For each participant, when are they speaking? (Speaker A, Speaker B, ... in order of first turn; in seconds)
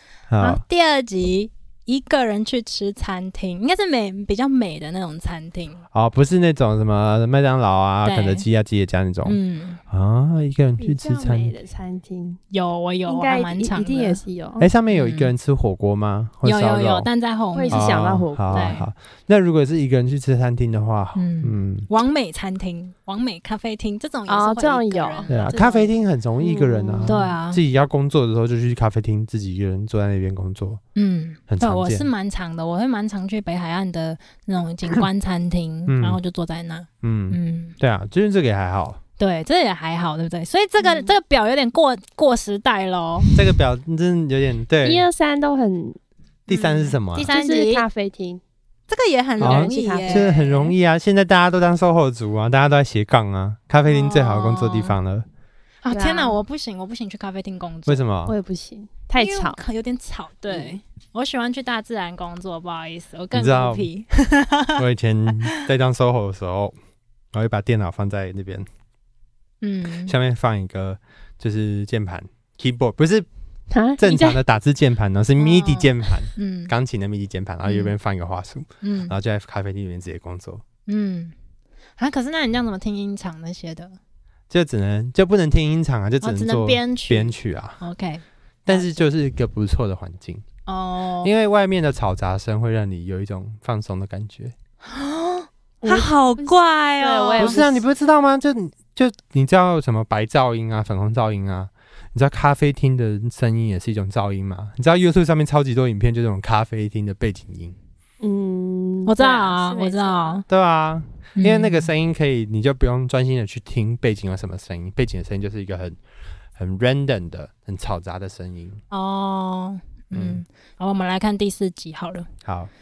Speaker A: 0.3-0.6, 5.9-11.5, 14.6-17.1, 17.7-21.9, 25.3-30.8, 31.5-32.1, 35.9-36.2, 37.0-39.0, 43.3-45.0, 46.5-47.3, 49.4-55.2, 57.9-58.3, 63.3-63.9, 64.8-66.8, 67.3-68.7, 70.0-73.3, 74.0-80.6, 84.5-87.8, 88.7-90.4, 91.2-94.5, 97.4-107.8, 110.5-116.0, 116.5-118.8, 120.1-120.4, 122.4-122.7
Speaker B: 0.4-5.8, 8.0-8.4, 9.2-9.8, 12.5-14.2, 14.9-15.3, 16.4-18.9, 21.1-25.7, 27.0-27.6, 30.9-37.7, 39.2-43.3, 46.5-47.9, 48.9-50.7, 53.9-54.9, 55.8-58.0, 59.2-64.8, 69.6-70.1, 75.4-76.7, 78.8-79.1, 80.9-81.3, 82.0-84.0, 86.2-88.9, 90.7-91.3, 94.8-97.6, 109.0-110.4, 111.4-111.9, 118.9-122.3
Speaker C: 10.8-12.4, 13.1-14.7, 17.5-18.8, 24.3-27.3, 40.8-41.1, 44.8-46.0, 47.3-48.4, 49.4-50.3, 55.9-56.4, 58.2-59.6, 60.5-60.8, 73.7-74.4, 95.8-97.8, 108.2-110.4